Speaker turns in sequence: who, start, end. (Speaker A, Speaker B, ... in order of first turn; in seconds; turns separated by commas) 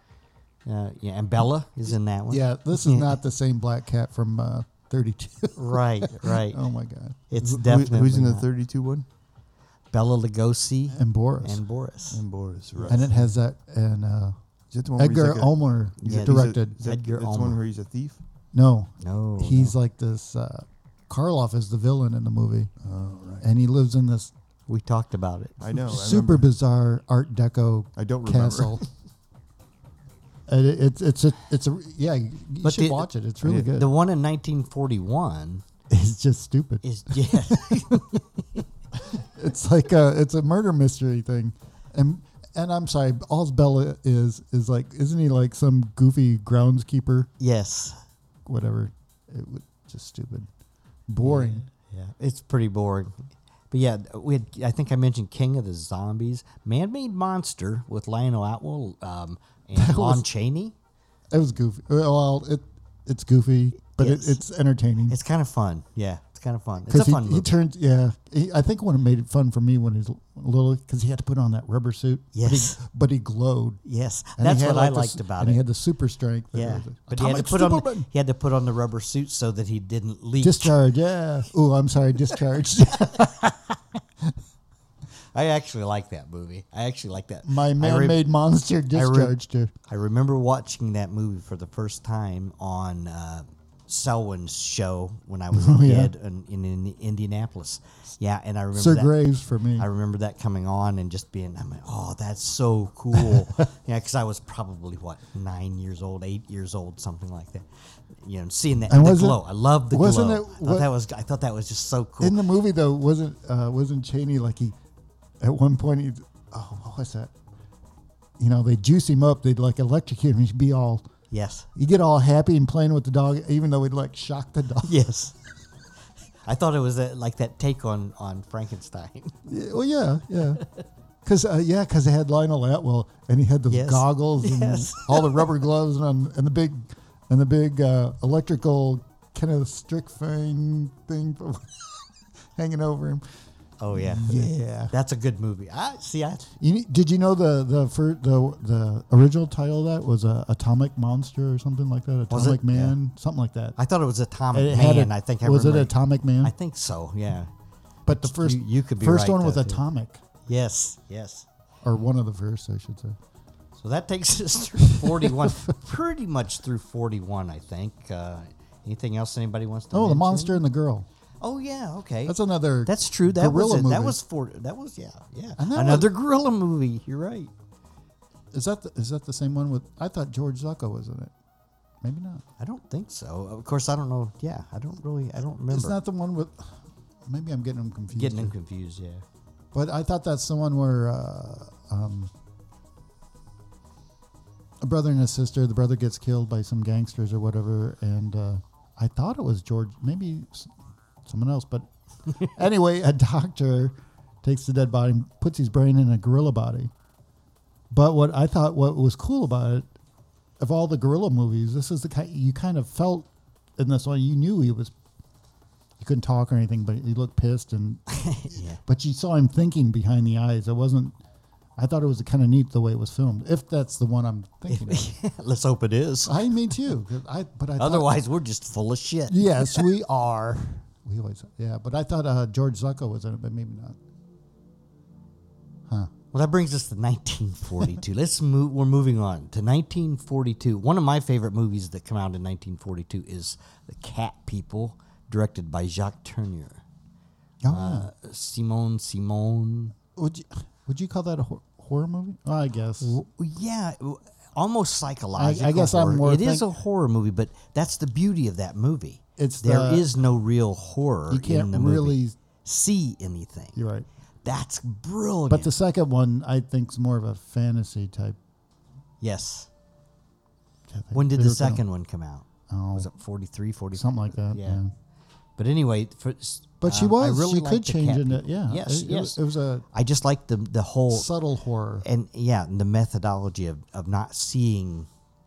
Speaker A: 0.7-3.1, Speaker B: 2.3-7.2, Speaker A: 5.6-6.6, Speaker A: 7.3-8.5, Speaker C: 7.4-9.1, Speaker A: 9.9-12.2, Speaker B: 10.9-11.6, Speaker C: 12.1-13.1, Speaker A: 12.8-13.3, Speaker B: 12.9-14.4, Speaker C: 14.7-18.2, Speaker B: 15.0-16.8, Speaker A: 16.0-17.6, Speaker B: 18.5-22.7, Speaker A: 19.0-19.8, Speaker C: 22.8-23.5, Speaker B: 23.4-24.3, Speaker A: 24.7-25.7, Speaker C: 25.6-26.5, Speaker B: 25.9-28.8, Speaker C: 28.0-28.8, Speaker B: 30.5-33.9, Speaker A: 32.6-33.1, Speaker C: 33.4-33.7, Speaker A: 33.7-35.6, Speaker B: 35.9-38.2, Speaker A: 36.8-38.6, Speaker B: 39.0-47.3, Speaker A: 47.4-48.0, Speaker B: 48.5-50.5, Speaker B: 51.1-51.6, Speaker A: 51.2-60.8, Speaker B: 59.7-60.3, Speaker B: 61.3-65.2, Speaker A: 64.0-64.4, Speaker A: 65.1-67.5, Speaker B: 66.9-73.8, Speaker A: 72.3-72.8, Speaker A: 73.8-75.6, Speaker B: 74.4-78.1, Speaker A: 76.5-80.8, Speaker B: 80.4-83.7, Speaker A: 85.3-88.2, Speaker B: 87.5-89.7, Speaker A: 88.9-89.4, Speaker A: 89.9-99.2, Speaker B: 95.5-96.1, Speaker B: 98.7-99.9, Speaker A: 99.8-112.4, Speaker B: 103.2-103.5, Speaker B: 108.9-110.9, Speaker B: 112.2-114.8, Speaker B: 115.4-117.3, Speaker B: 118.4-121.1, Speaker A: 121.3-121.7, Speaker B: 121.8-125.0, Speaker A: 124.8-125.3, Speaker A: 126.5-129.5, Speaker B: 129.5-130.6, Speaker B: 131.2-143.3, Speaker A: 133.7-135.5, Speaker A: 143.8-146.5, Speaker B: 143.9-144.9, Speaker B: 146.6-153.8, Speaker A: 152.3-153.0, Speaker A: 153.8-157.5, Speaker B: 154.5-156.6, Speaker B: 158.1-160.2, Speaker A: 158.1-159.8, Speaker A: 160.5-161.5, Speaker B: 161.8-163.2, Speaker A: 163.8-170.6, Speaker B: 169.9-171.1, Speaker A: 171.4-177.5, Speaker B: 172.3-174.2, Speaker B: 175.6-176.1, Speaker B: 178.5-181.3, Speaker B: 182.0-182.4, Speaker A: 182.6-186.0, Speaker B: 185.7-188.6, Speaker A: 188.1-189.2, Speaker B: 189.7-192.3, Speaker B: 194.8-200.7, Speaker B: 201.3-206.9, Speaker B: 207.9-209.9, Speaker B: 210.6-214.9, Speaker B: 216.0-221.2, Speaker A: 218.1-218.8, Speaker B: 221.8-225.2, Speaker A: 224.7-227.0, Speaker B: 226.2-228.2, Speaker A: 227.8-229.9, Speaker B: 229.3-234.0, Speaker A: 236.3-246.8, Speaker B: 247.6-248.1, Speaker A: 247.7-249.9, Speaker B: 250.2-253.2, Speaker A: 253.0-263.8, Speaker B: 255.3-256.7, Speaker B: 259.4-260.1, Speaker B: 261.3-262.4, Speaker B: 263.8-264.1, Speaker A: 264.4-265.7, Speaker B: 265.5-268.4, Speaker A: 269.2-269.7, Speaker B: 270.9-271.8, Speaker A: 271.1-274.8, Speaker B: 272.7-273.1, Speaker B: 273.9-274.9, Speaker A: 275.6-279.4, Speaker B: 276.8-279.9, Speaker A: 279.9-281.3, Speaker B: 281.1-282.1, Speaker A: 282.0-285.1